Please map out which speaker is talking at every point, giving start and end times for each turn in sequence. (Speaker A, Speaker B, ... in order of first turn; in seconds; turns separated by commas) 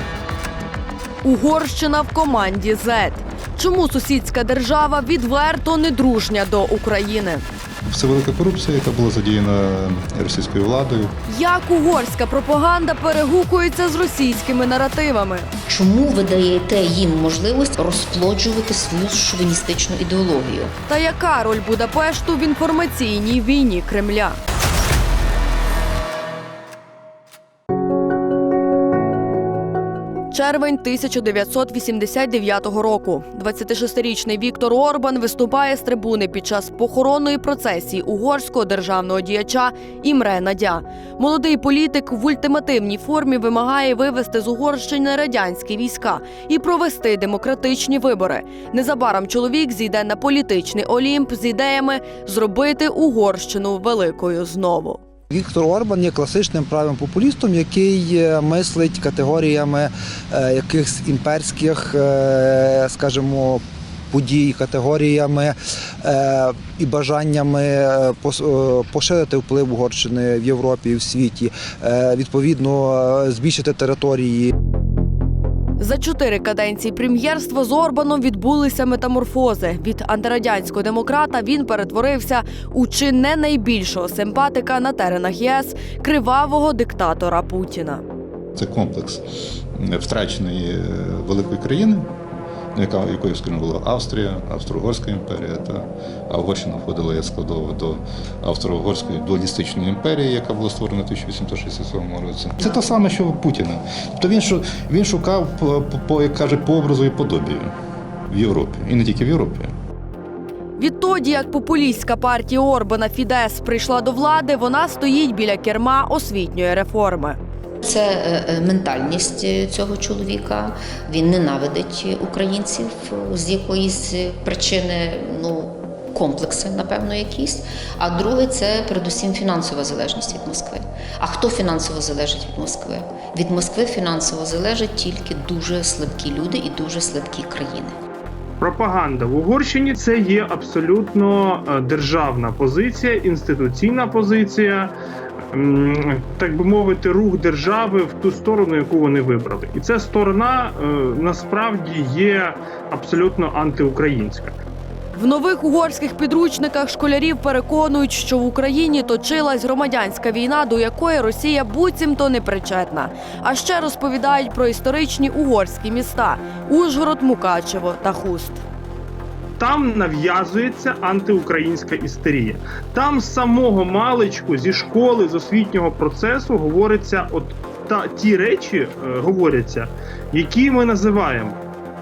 Speaker A: 1.2-7.4, Speaker B: 7.9-11.1, Speaker A: 11.3-15.5, Speaker C: 15.7-20.7, Speaker A: 20.9-24.4, Speaker A: 30.3-55.0, Speaker D: 55.3-74.5, Speaker A: 75.8-88.0, Speaker B: 88.5-89.2, Speaker B: 89.8-92.1, Speaker B: 92.7-107.7, Speaker B: 108.3-109.7, Speaker A: 110.8-117.4, Speaker C: 117.8-138.0, Speaker E: 138.6-144.9, Speaker E: 145.5-154.6, Speaker A: 155.1-168.6, Speaker E: 169.6-181.6